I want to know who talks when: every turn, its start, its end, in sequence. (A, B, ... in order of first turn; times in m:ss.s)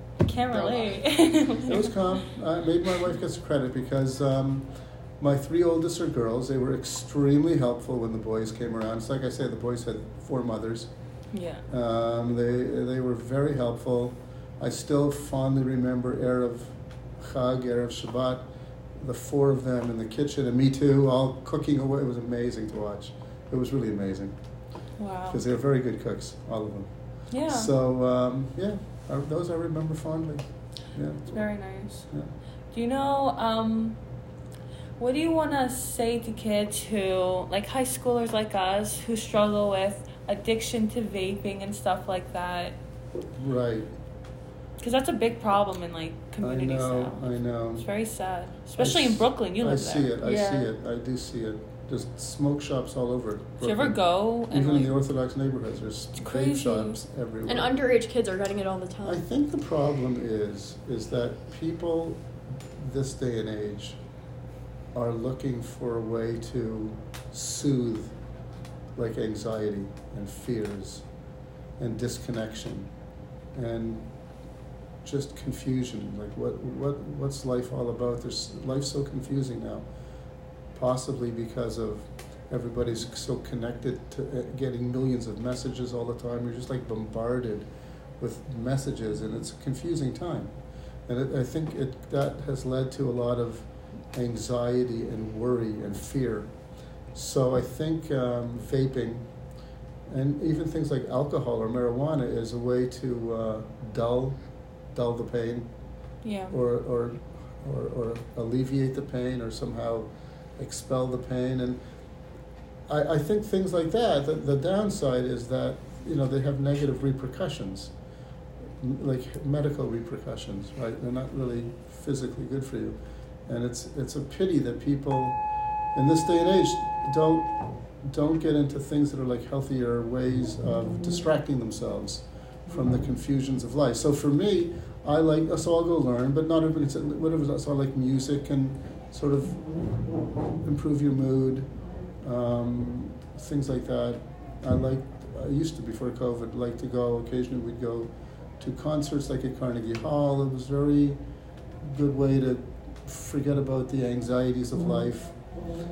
0:00.2-0:02.0 A
0:00.5-0:01.0 B
0:01.7-0:04.7 C
0:05.2-0:10.9 C
0:11.3-0:11.6 A
0:11.7-0:18.4 C
0:19.0-0:24.4 C
0:25.0-0:25.4 A
0:25.3-0:26.9 C
0:27.3-0:27.7 A
0:27.4-0:31.5 C
0:31.3-0:32.1 A
0:32.7-0:34.0 A
0:35.0-0:42.8 A
0:43.4-0:43.9 C
0:44.8-0:47.2 A
0:46.4-0:47.9 C
0:47.8-0:50.6 A
0:48.8-0:57.7 C
0:53.6-0:54.9 A
0:56.2-0:57.0 A
0:57.5-0:59.2 B
0:59.0-1:02.2 C
1:02.8-1:04.0 C
1:04.9-1:08.1 C
1:09.0-1:11.0 C
1:11.8-1:12.9 C
1:13.5-1:14.1 C
1:15.0-1:19.8 C
1:20.7-1:27.7 C
1:28.2-1:30.5 C
1:31.1-1:36.5 C
1:37.1-1:39.3 C
1:40.1-1:44.4 C
1:44.9-1:45.7 C
1:46.2-1:46.5 A
1:46.5-1:51.8 C
1:52.9-1:57.9 C
1:58.8-2:05.4 C
2:05.9-2:20.1 C
2:20.6-2:21.7 C
2:22.2-2:31.2 C
2:31.8-2:35.4 C